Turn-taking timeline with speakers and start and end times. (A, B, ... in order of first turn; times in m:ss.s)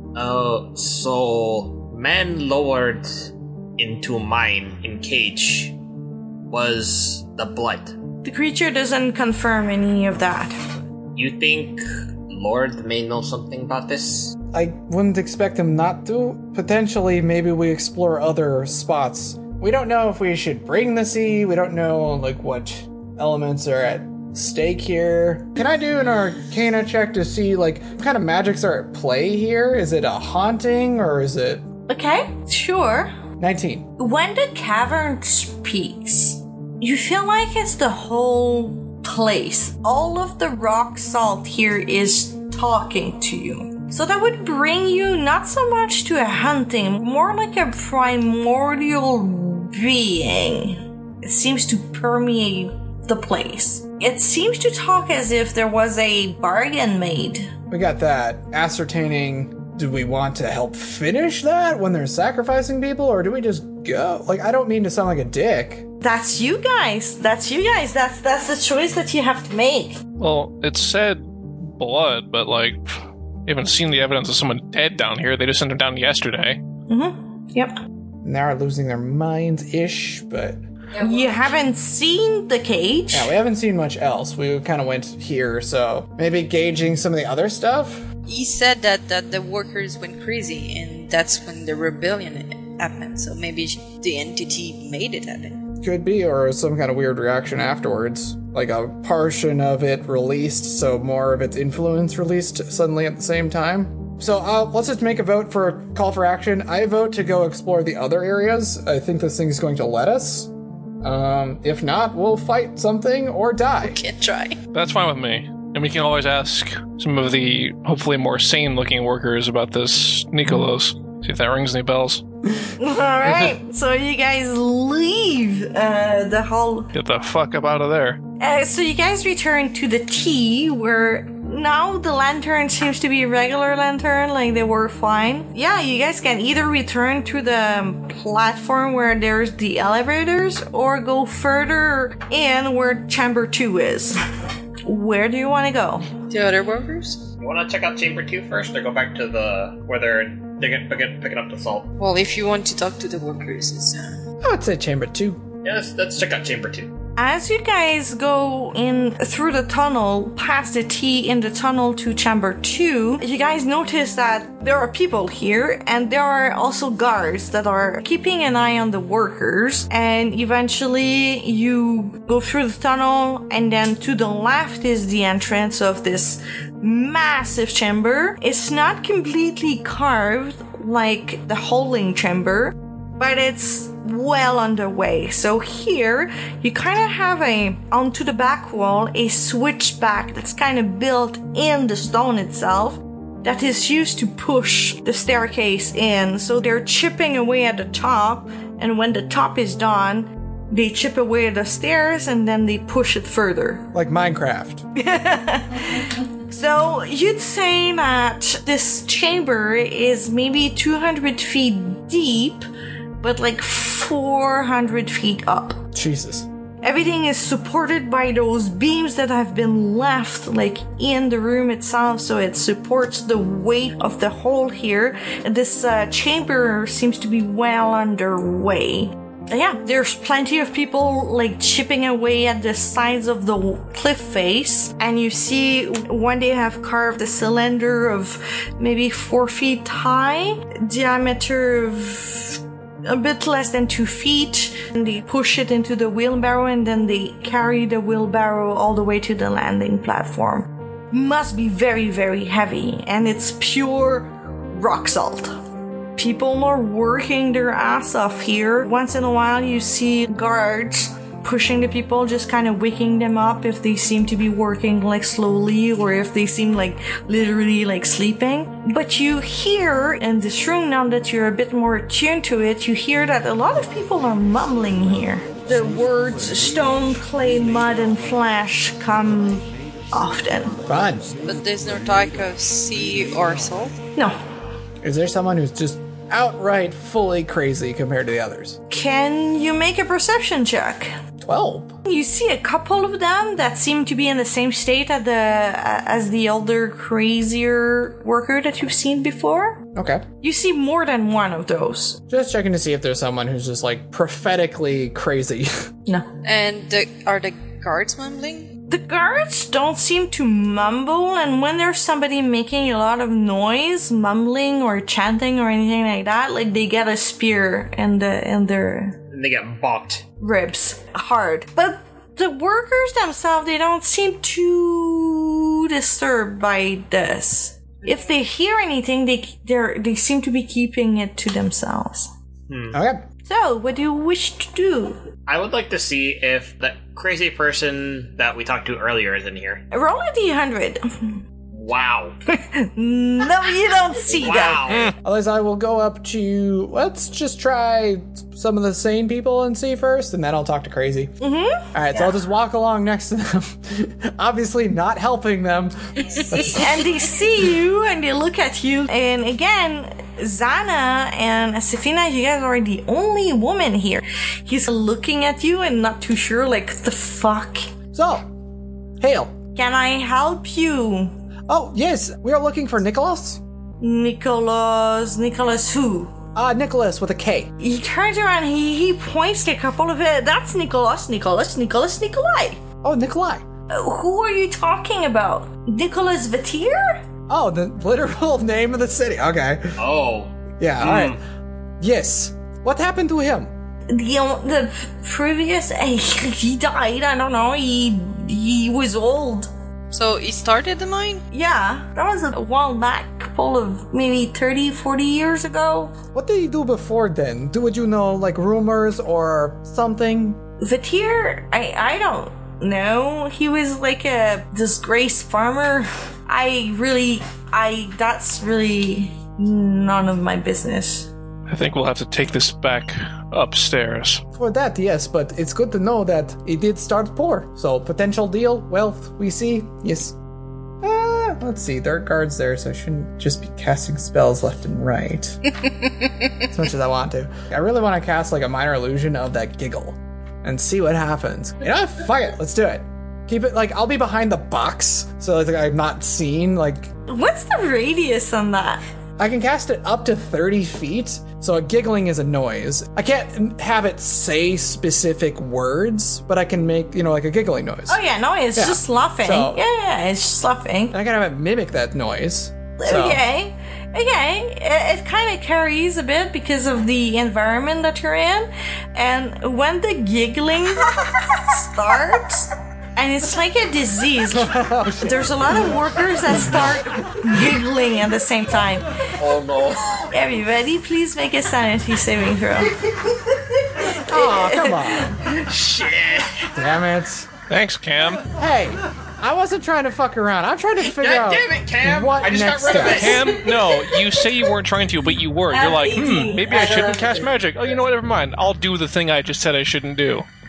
0:00.1-0:05.8 A
0:06.5-0:08.0 A
0:08.2-0:10.6 B
0:11.2-0:14.4 A
0:14.5-0:31.6 C
0:31.9-0:33.1 B
0:33.4-0:33.9 C
0:34.0-0:57.5 B
0:57.7-1:05.8 C
1:06.0-1:10.0 B
1:10.2-1:12.8 D
1:13.4-1:16.6 D
1:16.9-1:17.8 B
1:18.2-1:20.6 C
1:21.0-1:23.3 B
1:21.0-1:21.3 E
1:23.1-1:28.1 C
1:28.2-1:35.6 E
1:35.8-1:50.5 C
1:51.0-1:54.0 C
1:53.8-1:54.6 E
1:54.7-2:02.2 D
2:02.8-2:06.9 B
2:06.9-2:08.2 D
2:08.4-2:24.2 B
2:24.8-2:26.1 B
2:26.3-2:27.3 E
2:27.4-2:31.9 A
2:32.0-2:34.2 E
2:34.4-2:35.4 C
2:35.6-2:36.9 A
2:37.2-3:23.9 B
3:23.9-3:24.8 C
3:25.0-3:32.6 B
3:33.2-3:35.8 B
3:35.9-3:36.5 C
3:36.8-4:15.5 B
4:16.2-4:40.8 B
4:40.8-4:41.4 C
4:41.4-4:44.0 E
4:45.0-4:48.8 C
4:48.9-4:51.1 B
4:51.4-4:52.0 C
4:52.0-4:59.8 B
4:59.9-5:00.2 C
5:00.4-5:02.2 B
5:02.3-5:05.9 C
5:06.4-5:08.7 E
5:08.9-5:19.2 B
5:19.3-5:20.2 A
5:20.4-5:32.3 B
5:32.7-5:33.0 A
5:32.9-5:33.2 C
5:33.4-5:35.2 B
5:35.5-5:39.8 A
5:39.9-5:41.4 B
5:41.7-5:42.4 A
5:42.5-5:44.9 B
5:44.3-5:45.1 A
5:45.0-5:51.3 C
5:51.4-5:51.9 B
5:51.9-5:57.0 C
5:56.6-6:07.9 B
6:08.1-6:08.5 C
6:09.2-6:09.5 C
6:09.8-6:11.3 B
6:11.7-6:13.6 C
6:14.0-6:16.3 B
6:16.5-6:17.7 C
6:17.8-6:22.8 B
6:23.0-6:23.6 C
6:23.9-6:27.2 B
6:27.5-6:30.0 C
6:30.0-6:31.4 A
6:30.8-6:31.4 C
6:32.0-6:33.7 C
6:34.1-6:39.7 B
6:40.1-6:41.4 E
6:41.5-6:46.1 B
6:46.3-6:50.6 C
6:50.8-7:01.3 B
7:01.7-7:04.4 D
7:04.6-7:10.4 C
7:11.0-7:15.6 C
7:16.7-7:27.1 C
7:27.3-7:29.0 B
7:29.4-7:38.2 C
7:38.1-7:41.1 B
7:38.7-7:39.8 C
7:41.1-7:43.4 C
7:43.0-7:59.1 B
7:54.5-7:55.7 C
7:56.5-7:57.0 C
7:59.4-8:00.0 A
8:00.3-8:02.9 B
8:04.0-8:05.3 B
8:04.2-8:05.4 C
8:05.5-8:06.7 A
8:06.7-8:07.5 C
8:07.7-8:08.5 D
8:08.5-8:13.4 C
8:11.0-8:13.6 A
8:13.0-8:20.4 D
8:15.7-8:17.5 E